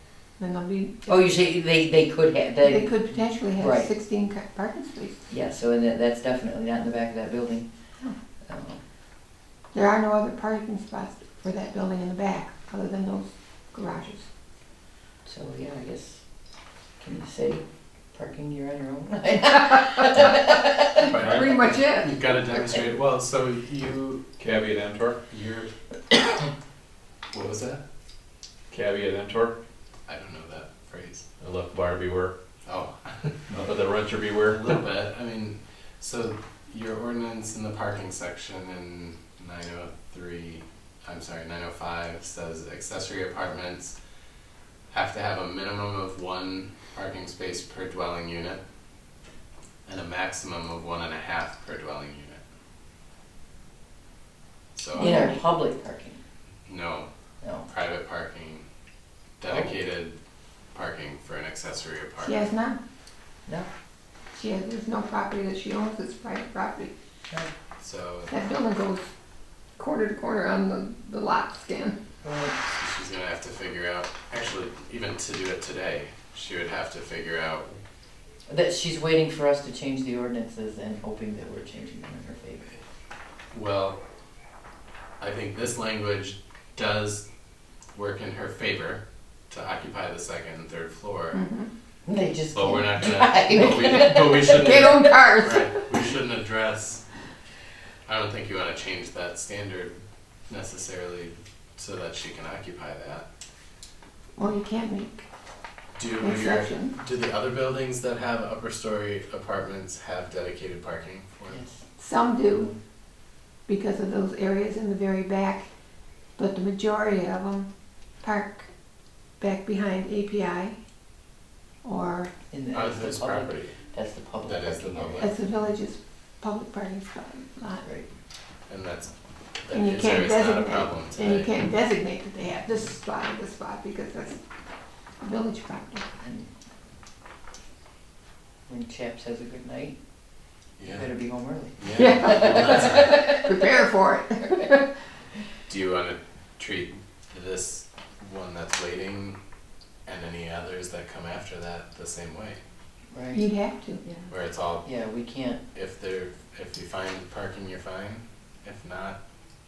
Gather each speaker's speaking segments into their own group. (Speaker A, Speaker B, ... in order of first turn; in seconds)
Speaker A: 0.4-1.4, 2.6-5.2, 9.7-14.3, 21.0-22.1, 55.0-55.5, 62.2-62.8, 64.4-66.9, 68.3-69.1, 69.8-72.0, 91.3-91.7, 93.7-95.9, 104.4-105.3, 106.2-107.0, 112.0-112.7, 113.7-115.7, 116.4-117.7, 118.2-118.7, 119.4-120.8, 121.8-122.3, 125.2-127.9, 129.7-134.4, 135.2-136.1, 141.9-144.9, 153.3-154.0
Speaker B: 1.1-3.0, 3.6-3.9, 5.3-7.7, 8.4-8.8, 15.2-16.2, 17.0-21.1, 55.0-56.2, 57.4-57.7, 59.5-59.8, 72.2-72.5, 78.5-82.7, 92.1-95.0, 111.5-111.8, 122.5-125.3, 136.2-136.5, 138.7-140.0, 140.8-143.7, 153.1-153.5, 154.0-154.3, 154.8-155.6
Speaker C: 21.0-24.3, 27.3-27.8, 30.1-31.2, 32.6-33.3, 34.5-44.0, 44.9-48.6, 49.9-52.4, 54.8-55.1, 56.7-57.1, 57.7-58.6, 59.4-60.2, 60.7-62.5, 67.8-68.3, 72.7-77.8, 83.5-84.0, 85.2-87.2, 88.0-91.4, 92.5-97.0, 98.1-100.0, 100.5-103.2, 106.0-111.6, 122.7-123.7, 124.4-125.3, 128.7-129.1, 129.6-131.5, 140.8-141.1, 141.8-143.2, 145.7-149.4, 150.1-152.6, 154.3-154.8, 155.7-159.2
Speaker D: 24.4-25.2, 28.7-29.6, 31.4-32.3, 33.5-34.8